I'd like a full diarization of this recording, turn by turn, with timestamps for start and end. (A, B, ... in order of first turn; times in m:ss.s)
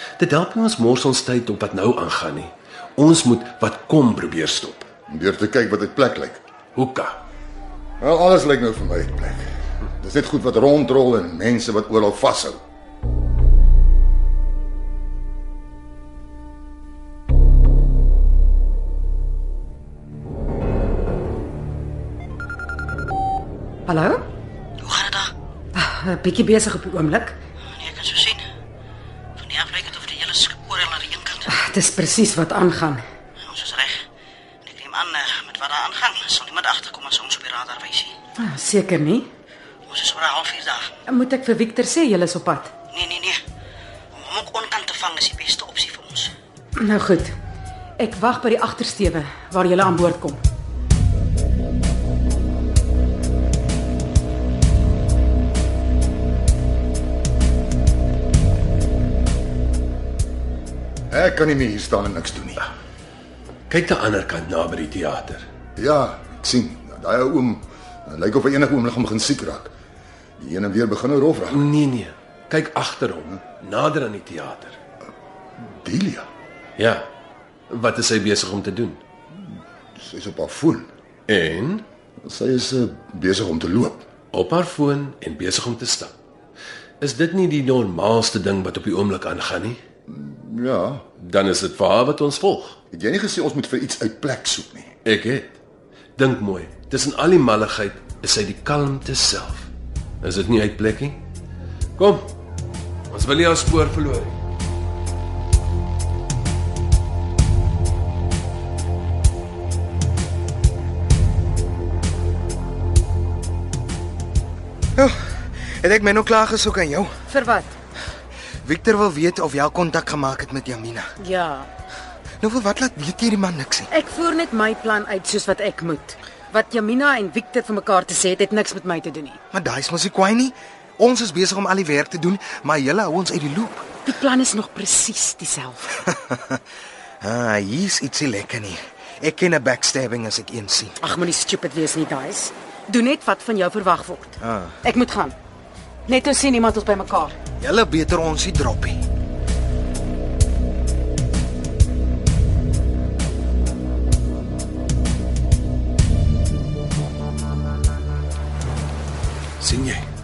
0:00.2-0:04.9 A
0:05.1-0:06.4 B
0:06.7-0:07.2 A
0:08.0-0:09.4 B
0:10.0-0:12.6 B
0:23.9-0:24.2 C
0:24.8-0:25.3 D
0:25.7-0:27.4 C
0:27.6-0:28.4 D
0:29.4-0:31.5 D
0:31.5-0:33.0 C
0:33.4-0:34.0 D
0:34.6-0:38.1 D
0:38.4-0:39.2 C
0:39.9-0:40.9 D
0:41.1-0:42.7 C
0:42.9-0:43.4 D
0:44.1-0:46.3 D
0:46.8-0:47.3 C
0:48.0-0:50.4 C
1:01.1-1:02.6 B
1:03.7-1:05.4 A
1:05.8-1:09.7 B
1:10.4-1:11.6 B
1:11.5-1:14.8 A
1:15.6-1:16.3 B
1:16.8-1:17.1 A
1:17.7-1:19.0 A
1:19.4-1:20.9 B
1:21.3-1:21.8 A
1:22.2-1:24.0 B
1:24.3-1:26.1 A
1:27.0-1:29.8 A
1:30.1-1:31.0 B
1:31.2-1:32.8 A
1:32.9-1:34.9 B
1:35.0-1:35.6 A
1:36.2-1:39.7 A
1:40.2-1:41.2 A
1:42.0-1:42.3 A
1:43.1-1:44.4 A
1:55.0-1:57.1 E
1:57.3-1:57.7 C
1:58.6-2:01.1 E
2:01.2-2:01.7 C
2:02.4-2:03.9 E
2:03.9-2:09.4 C
2:09.5-2:13.9 E
2:14.0-2:15.9 C
2:16.0-2:16.6 E
2:17.2-2:21.0 E
2:21.0-2:25.4 C
2:24.4-2:24.7 E
2:26.1-2:27.4 C
2:27.6-2:29.0 E
2:39.6-2:40.0 A